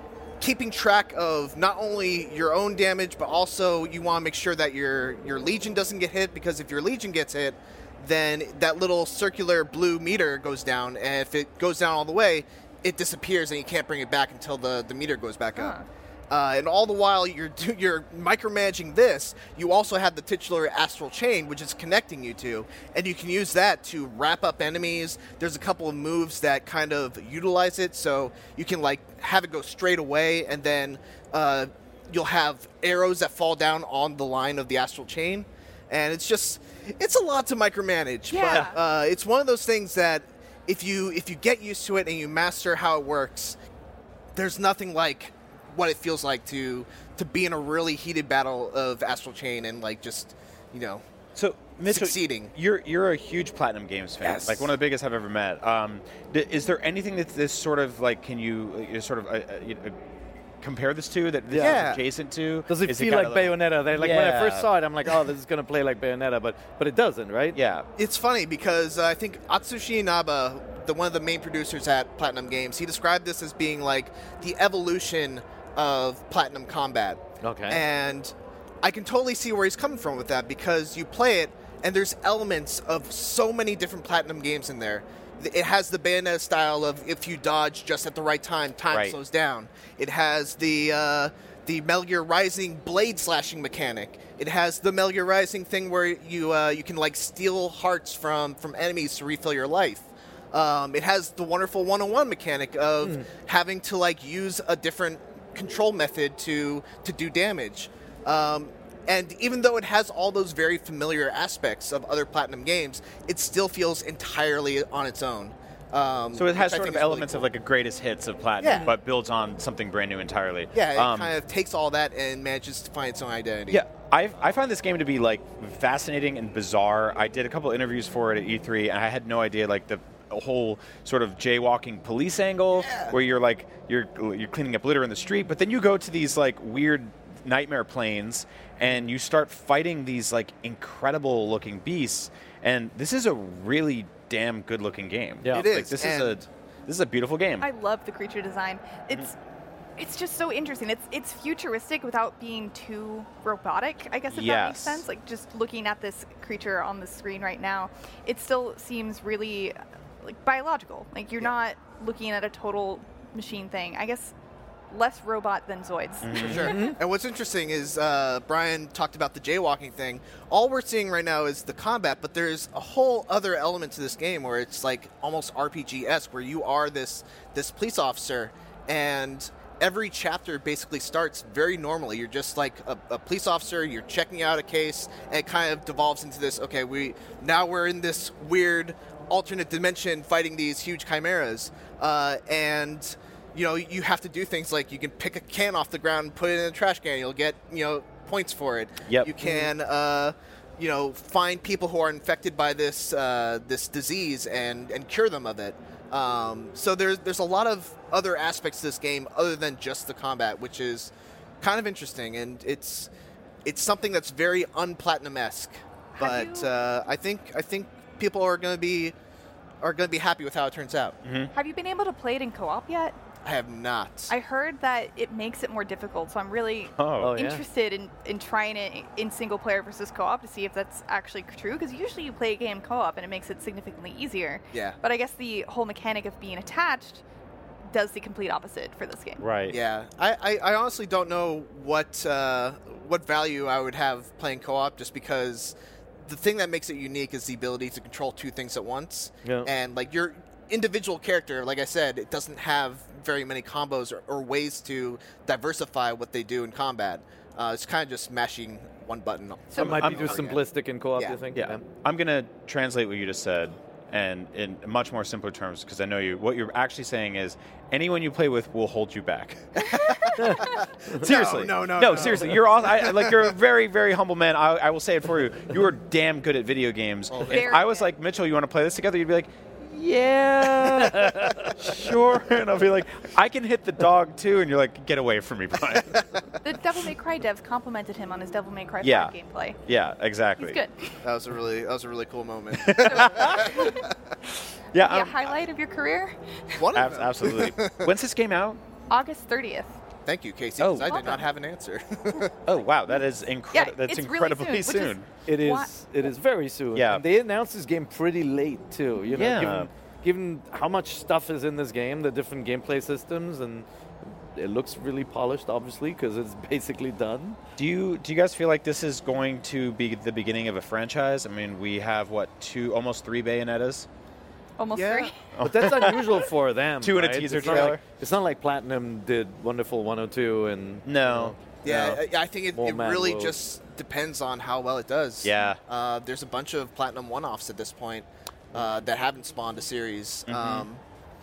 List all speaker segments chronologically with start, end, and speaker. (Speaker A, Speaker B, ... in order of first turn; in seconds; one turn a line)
Speaker A: 0.4-15.8
Speaker B: 15.6-15.9
Speaker A: 16.3-43.6
Speaker B: 38.3-38.8
Speaker A: 44.4-51.0
Speaker C: 51.4-60.0
Speaker A: 51.9-52.5
Speaker A: 54.2-54.7
Speaker C: 60.6-64.7
Speaker D: 61.5-61.9
Speaker A: 61.6-62.0
Speaker D: 62.7-67.6
Speaker C: 67.5-67.9
Speaker A: 68.0-117.5
Speaker D: 77.4-77.8
Speaker C: 88.9-89.2
Speaker D: 103.0-103.3
Speaker C: 116.3-121.3
Speaker A: 118.6-118.9
Speaker A: 120.7-123.8
Speaker C: 123.7-147.7
Speaker A: 132.8-133.1
Speaker D: 145.4-145.7
Speaker A: 145.5-146.4
Speaker B: 147.6-149.4
Speaker B: 150.0-164.3
Speaker C: 154.3-155.0
Speaker B: 164.9-166.9
Speaker C: 166.2-166.9
Speaker A: 166.3-213.1
Speaker D: 166.6-166.9
Speaker C: 199.1-199.4
Speaker A: 213.7-219.2
Speaker B: 216.1-216.7
Speaker A: 219.8-221.2
Speaker C: 221.2-221.5
Speaker B: 221.5-223.2
Speaker A: 223.4-224.3
Speaker B: 224.3-237.2
Speaker C: 227.0-227.3
Speaker D: 227.2-227.6
Speaker A: 234.7-235.0
Speaker B: 237.9-239.4
Speaker C: 239.4-239.8
Speaker A: 239.7-260.6
Speaker D: 249.4-249.7
Speaker C: 259.8-260.5
Speaker D: 259.8-261.8
Speaker A: 261.2-261.4
Speaker C: 261.5-270.5
Speaker B: 269.8-270.9
Speaker A: 269.8-273.6
Speaker C: 271.2-286.4
Speaker A: 277.3-277.7
Speaker B: 277.5-278.1
Speaker D: 280.8-281.7
Speaker B: 286.6-289.8
Speaker C: 289.0-289.3
Speaker C: 289.9-290.8
Speaker B: 290.6-291.2
Speaker A: 291.2-294.3
Speaker C: 292.7-293.9
Speaker B: 293.1-294.1
Speaker C: 294.9-295.6
Speaker B: 295.0-296.9
Speaker A: 296.8-298.1
Speaker C: 296.9-298.8
Speaker B: 299.1-300.0
Speaker A: 300.3-302.6
Speaker C: 300.8-301.3
Speaker B: 301.0-301.5
Speaker C: 302.6-305.3
Speaker B: 303.7-305.9
Speaker D: 305.5-317.6
Speaker C: 306.9-307.2
Speaker C: 309.3-309.9
Speaker C: 317.8-324.1
Speaker B: 324.8-325.4
Speaker A: 324.9-325.3
Speaker C: 325.5-326.5
Speaker D: 325.6-332.2
Speaker C: 327.0-328.0
Speaker C: 331.1-331.6
Speaker A: 331.8-341.0
Speaker D: 332.7-333.6
Speaker C: 335.4-335.8
Speaker C: 340.5-340.9